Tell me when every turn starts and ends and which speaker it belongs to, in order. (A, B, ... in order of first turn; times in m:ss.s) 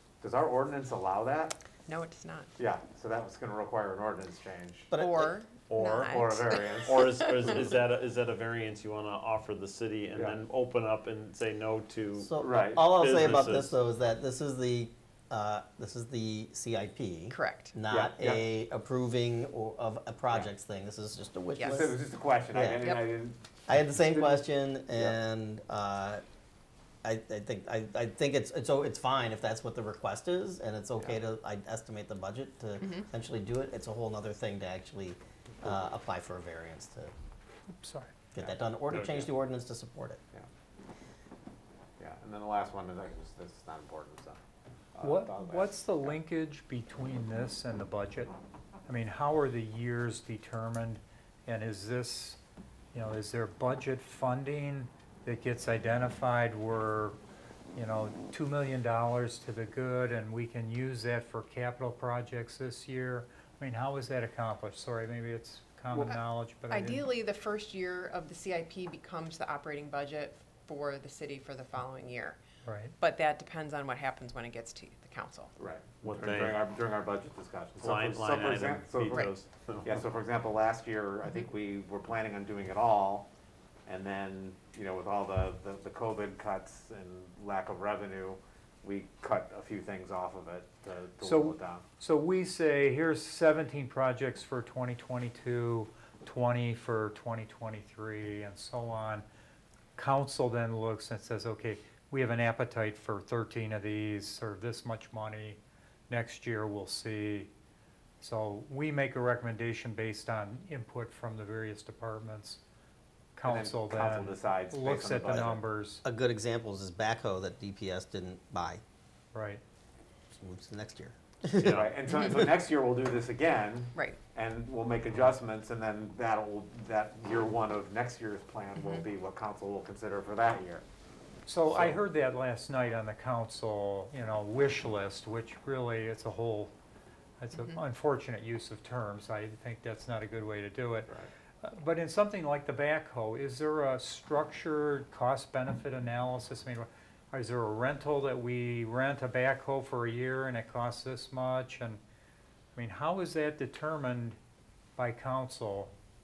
0:00.2-0:01.6 A
0:01.8-0:02.5 B
0:02.6-0:04.9 A
0:04.9-0:05.4 C
0:04.9-0:07.4 B
0:05.7-0:06.2 D
0:06.1-0:07.6 A
0:06.8-0:13.7 D
0:10.1-0:10.4 A
0:12.2-0:21.9 C
0:12.4-0:12.8 A
0:17.3-0:17.7 B
0:17.9-0:18.5 A
0:21.6-0:21.9 B
0:21.7-0:23.4 A
0:22.5-0:22.9 C
0:23.7-0:26.2 C
0:24.0-0:25.2 A
0:27.0-0:37.1 C
0:37.8-0:38.1 E
0:38.3-0:40.2 C
0:38.9-0:39.2 D
0:42.0-0:44.4 A
0:44.9-0:46.1 A
0:45.0-0:48.3 E
0:48.9-0:52.4 E
0:52.9-0:57.2 E
0:57.7-1:07.1 E
1:06.0-1:12.4 B
1:12.6-1:12.9 E
1:13.0-1:15.5 B
1:15.6-1:23.3 A
1:16.0-1:16.6 D
1:17.8-1:19.9 D
1:23.8-1:31.8 A
1:31.2-1:39.2 E
1:40.0-1:47.5 E
1:48.2-1:52.6 E
1:53.4-1:56.0 E
1:53.4-1:55.6 A
1:56.0-1:58.8 C
1:59.3-1:59.6 E
2:00.3-2:01.8 C
2:01.5-2:01.9 D
2:01.7-2:10.8 A
2:08.8-2:09.0 B
2:11.4-2:16.7 E
2:11.7-2:12.0 A
2:17.4-2:32.0 E
2:32.8-2:34.4 E
2:35.0-2:35.9 E